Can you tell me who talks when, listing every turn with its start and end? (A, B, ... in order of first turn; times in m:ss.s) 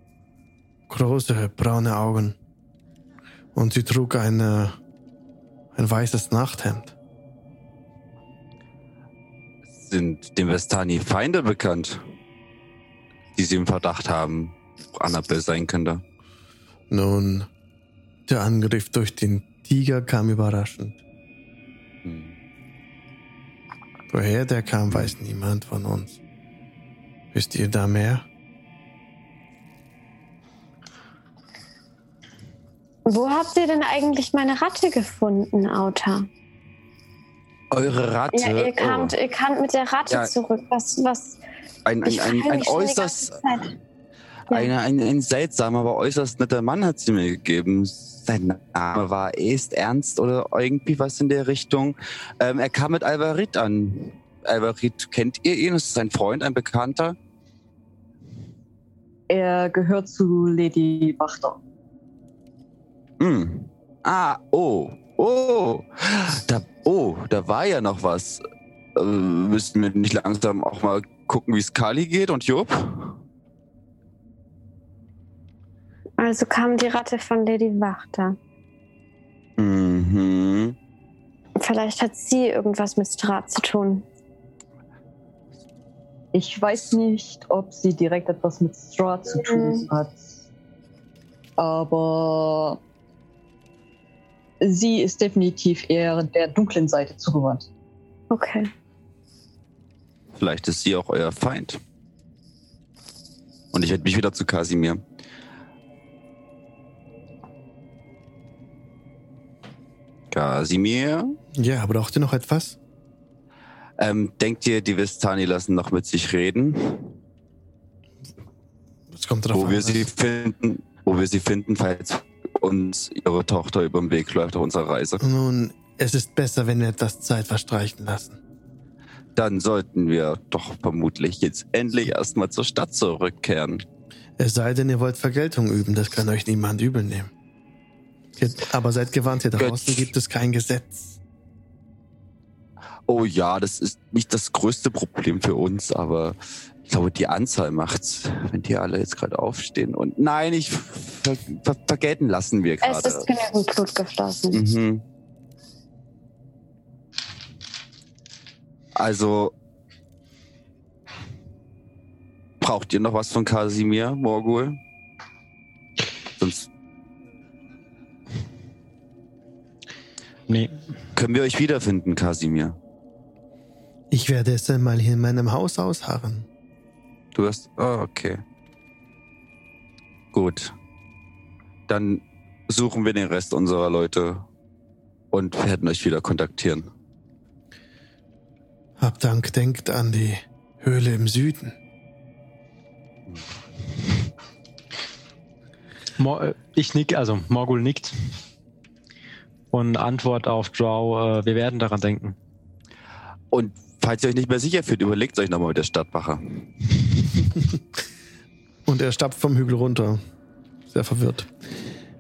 0:00.9-0:02.4 A
0:03.6-0:04.8 A
0:05.8-0:06.9 A
0:09.7-0:12.0 B
0:13.4-0:16.0 B
0:16.9-0:17.5 A
0:18.3-0:21.0 A
0:22.0-0:22.4 B
0:24.1-0:26.2 A
0:27.3-0:28.3 A
0:33.1-0:36.3 C
0:37.7-0:39.2 B
0:38.3-0:41.4 C
0:41.8-0:43.4 B
0:42.0-0:43.7 C
0:44.5-0:57.2 B
0:59.3-1:01.6 D
1:03.2-1:08.4 B
1:09.0-1:13.2 B
1:16.2-1:18.4 C
1:19.6-1:20.8 B
1:21.6-1:24.1 C
1:26.3-1:30.3 D
1:29.3-1:29.9 C
1:31.6-1:32.8 D
1:34.6-1:37.7 D
1:38.3-1:38.7 C
1:40.4-1:41.8 B
1:43.7-1:45.0 B
1:50.3-1:51.4 B
1:51.6-1:52.8 A
1:54.0-1:57.1 B
1:59.1-2:00.1 A
1:59.5-2:05.2 B
2:05.2-2:08.4 A
2:09.4-2:13.8 B
2:14.4-2:17.3 A
2:18.4-2:21.2 A
2:19.6-2:20.1 B
2:23.1-2:33.8 B
2:32.8-2:34.8 C
2:34.5-2:35.0 B
2:39.0-2:39.5 B
2:42.6-2:44.8 B
2:46.4-2:46.7 B
2:51.2-2:52.8 B
2:54.1-2:56.5 A
2:57.4-2:58.4 B
3:00.3-3:00.8 B
3:01.9-3:04.5 B
3:05.3-3:06.9 B
3:09.0-3:11.8 A
3:16.2-3:18.4 E
3:19.7-3:22.4 E
3:23.5-3:27.4 B
3:28.9-3:30.2 A
3:30.9-3:31.5 A